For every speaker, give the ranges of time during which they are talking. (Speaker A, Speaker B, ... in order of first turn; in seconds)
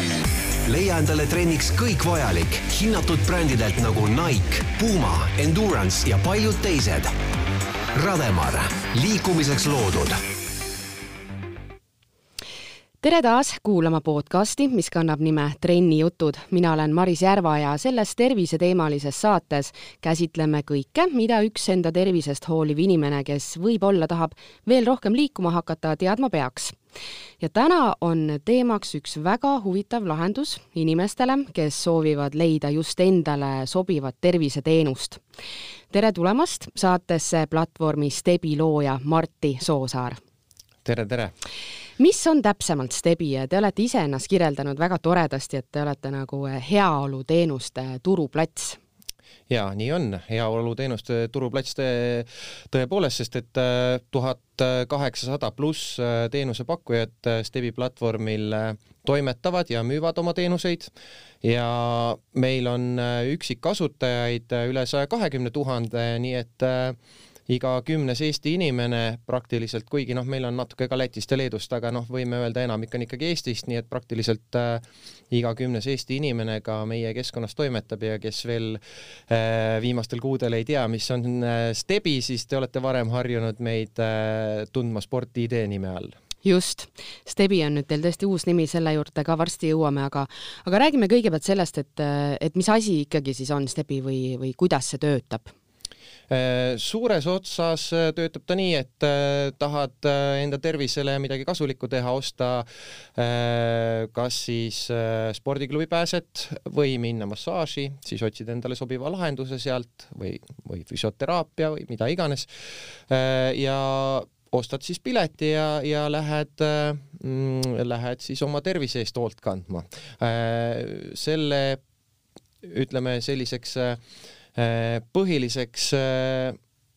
Speaker A: 0.6-7.1, 7.9-10.2
Speaker B: 13.0-26.8, 27.4-35.2, 35.9-40.2, 42.0-48.8, 86.4-95.5
Speaker C: 40.8-41.3, 49.5-60.9, 61.4-67.0, 67.5-86.1, 96.3-121.8, 122.6-124.0, 124.5-126.6